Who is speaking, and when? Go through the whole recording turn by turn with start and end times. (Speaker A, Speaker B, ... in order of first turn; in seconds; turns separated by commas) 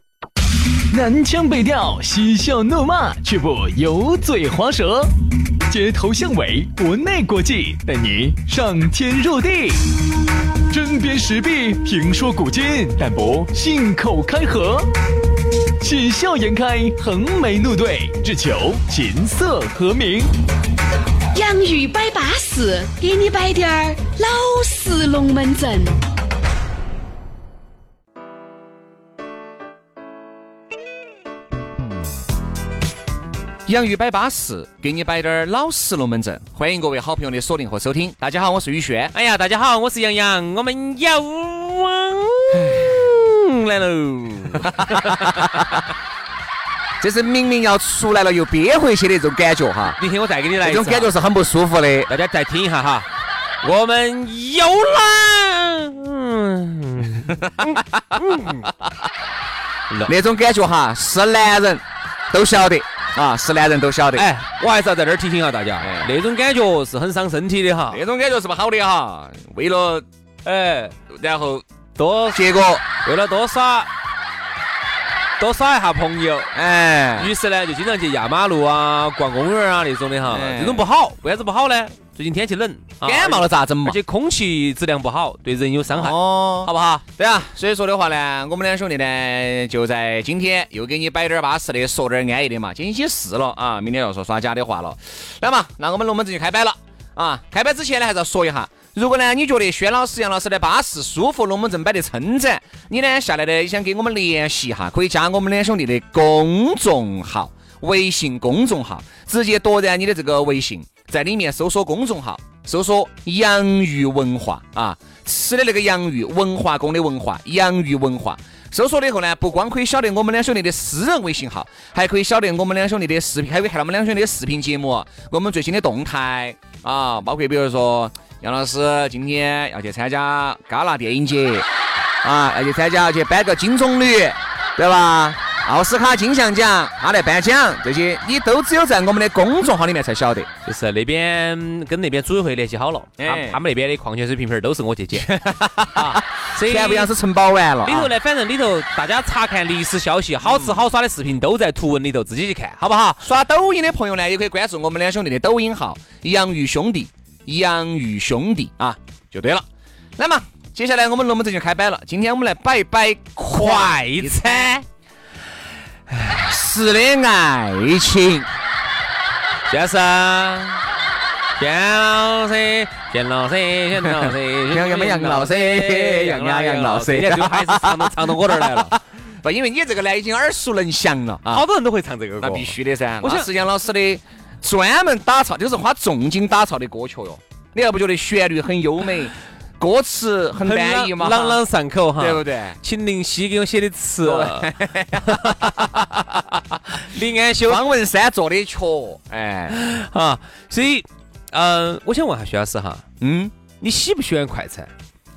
Speaker A: 0.9-5.1, Speaker A: 5.7-10.0, Speaker A: 10.7-14.9, Speaker A: 15.8-20.3, Speaker B: 21.3-26.0, Speaker C: 33.7-39.1, Speaker D: 39.1-45.7, Speaker C: 44.6-45.7, Speaker C: 47.0-50.0, Speaker D: 50.0-51.1, Speaker C: 50.6-52.1, Speaker D: 52.1-53.1, Speaker D: 53.6-58.7, Speaker C: 57.4-58.2, Speaker C: 60.0-64.3, Speaker D: 64.1-68.0, Speaker C: 65.8-66.1, Speaker C: 67.9-70.0, Speaker D: 70.4-70.9, Speaker C: 71.0-71.6, Speaker D: 72.0-72.4, Speaker C: 72.3-72.8, Speaker D: 73.0-73.9, Speaker D: 75.4-76.5, Speaker C: 76.5-77.3, Speaker D: 77.2-87.0, Speaker C: 80.3-80.8, Speaker C: 83.0-84.0, Speaker C: 85.9-131.7, Speaker C: 132.2-140.5, Speaker D: 140.7-145.3, Speaker C: 143.2-143.6, Speaker C: 145.1-148.1, Speaker D: 146.0-147.1, Speaker D: 147.8-153.2, Speaker C: 150.4-150.8, Speaker C: 153.2-159.7, Speaker C: 160.2-164.8, Speaker D: 163.5-164.8, Speaker C: 166.1-168.5, Speaker D: 169.7-170.8, Speaker D: 171.6-179.0, Speaker C: 174.0-181.7, Speaker D: 181.5-183.5, Speaker C: 182.4-191.6, Speaker D: 190.6-196.3, Speaker C: 192.2-192.8, Speaker C: 194.2-196.7, Speaker D: 196.9-197.8, Speaker C: 197.7-199.8, Speaker D: 199.7-203.0, Speaker C: 203.2-203.5, Speaker D: 203.8-204.9